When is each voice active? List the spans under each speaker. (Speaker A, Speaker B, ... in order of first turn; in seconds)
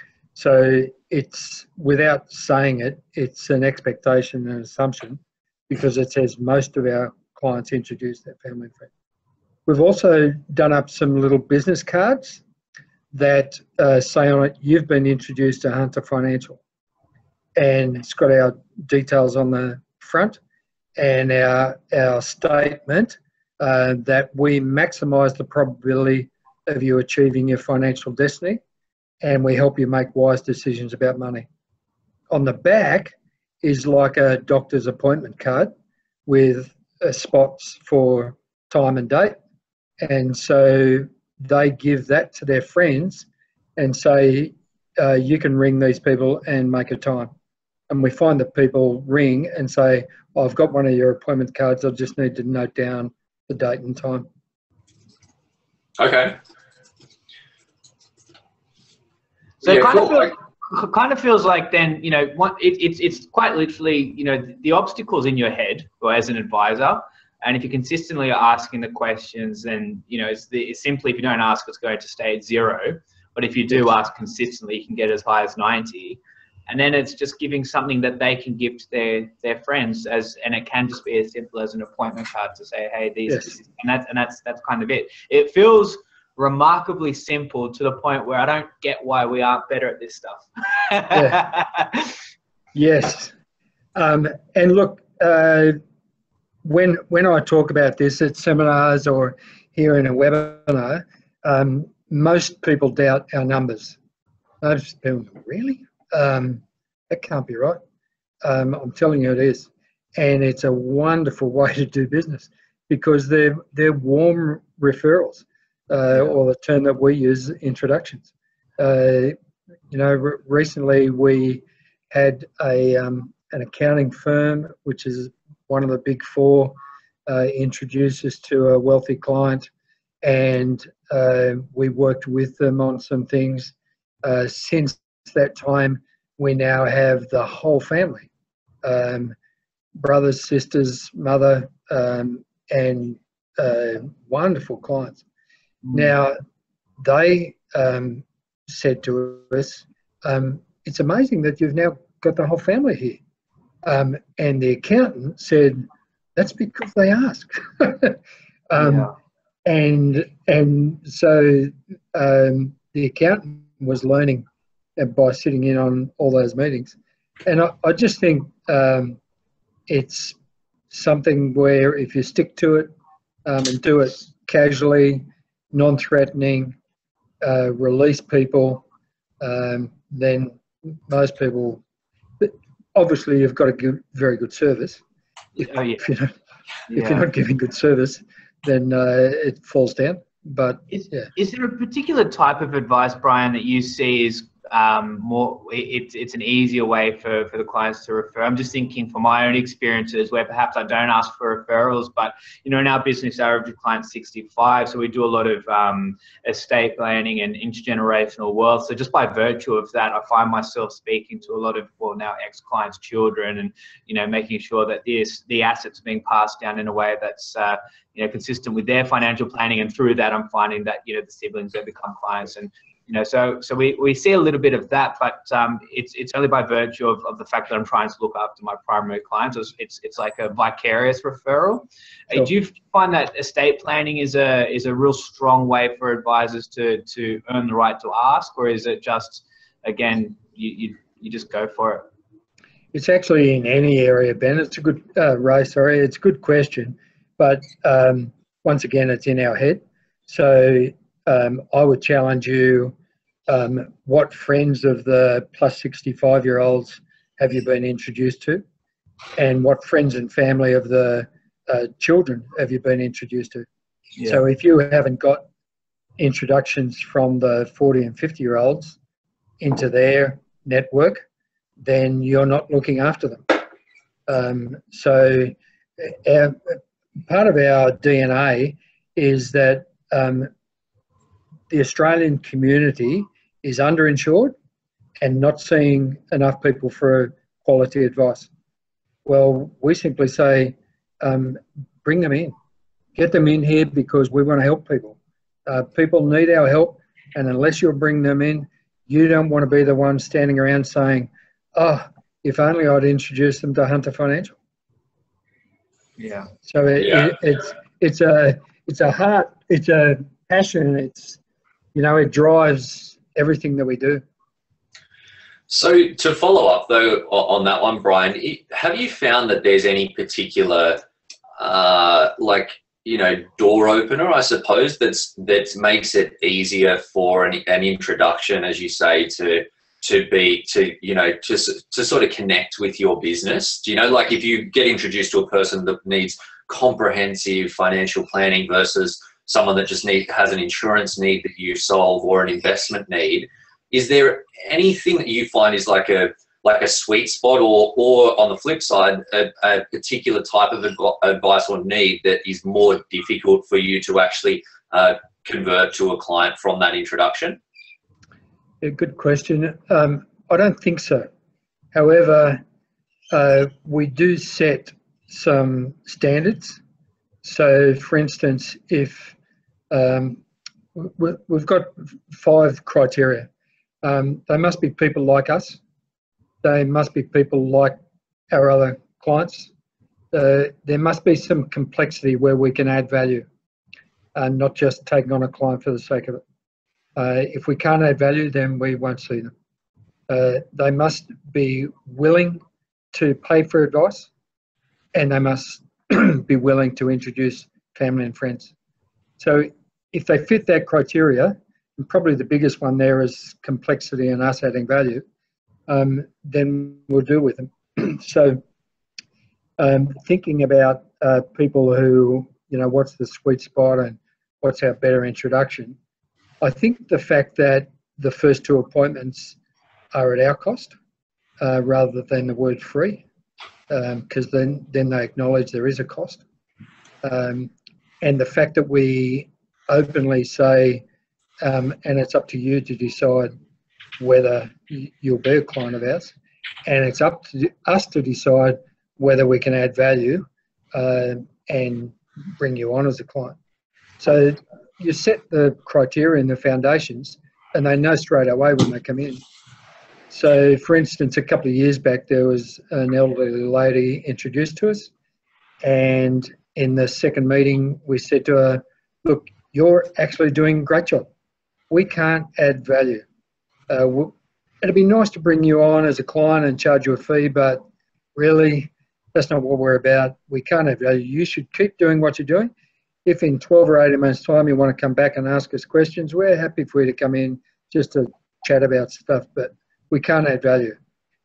Speaker A: 0.3-8.9, 9.7-12.4, 13.1-16.6, 17.6-20.4, 21.0-28.6, 29.2-31.4, 32.3-35.7, 36.2-39.4, 40.0-47.3, 47.9-54.2, 83.3-83.5, 91.1-91.4, 92.7-93.3, 93.9-95.8, 96.6-104.0, 104.6-107.8, 108.4-119.3, 119.9-126.7, 127.2-129.7, 130.2-138.3, 138.8-139.3, 139.9-145.2, 145.9-146.4, 147.0-153.2, 153.8-155.8, 156.3-158.2, 158.7-159.1, 159.6-169.2, 169.9-170.3, 170.9-172.9, 173.4-176.7, 177.4-178.8, 179.4-181.8, 182.4-185.0, 185.6-186.3, 186.9-191.3, 242.9-252.9, 253.5-258.6, 259.4-263.6, 264.2-265.4, 266.2-269.0, 269.6-271.2, 271.8-273.7, 274.3-280.5, 281.7-284.5, 285.2-288.5, 289.2-292.5, 293.1-304.6, 306.6-311.4, 311.9-314.2, 358.8-361.3, 361.9-362.6, 363.3-366.8, 367.4-369.3, 369.9-370.4, 370.9-373.5, 374.0-375.8, 376.6-378.0, 378.5-379.7, 380.3-383.4, 384.3-386.4, 387.1-389.5, 390.3-392.6, 393.1-394.3, 395.1-398.7, 399.4-405.2, 405.9-408.6, 409.8-415.9, 416.6-419.6, 420.1-420.9, 421.6-423.2, 423.9-426.4, 427.2-427.7, 428.2-431.0, 431.6-433.5, 434.2-436.3, 436.9-443.6, 444.2-449.4, 450.3-455.1, 455.8-461.3, 461.9-463.2, 463.9-467.8, 468.3-472.7, 473.2-481.0
Speaker B: 56.0-56.4, 59.6-60.3, 307.0-307.3, 315.7-321.0, 321.6-357.6
Speaker C: 59.6-92.1, 158.8-159.1, 185.6-186.0, 186.9-187.2, 190.9-242.1, 306.2-306.5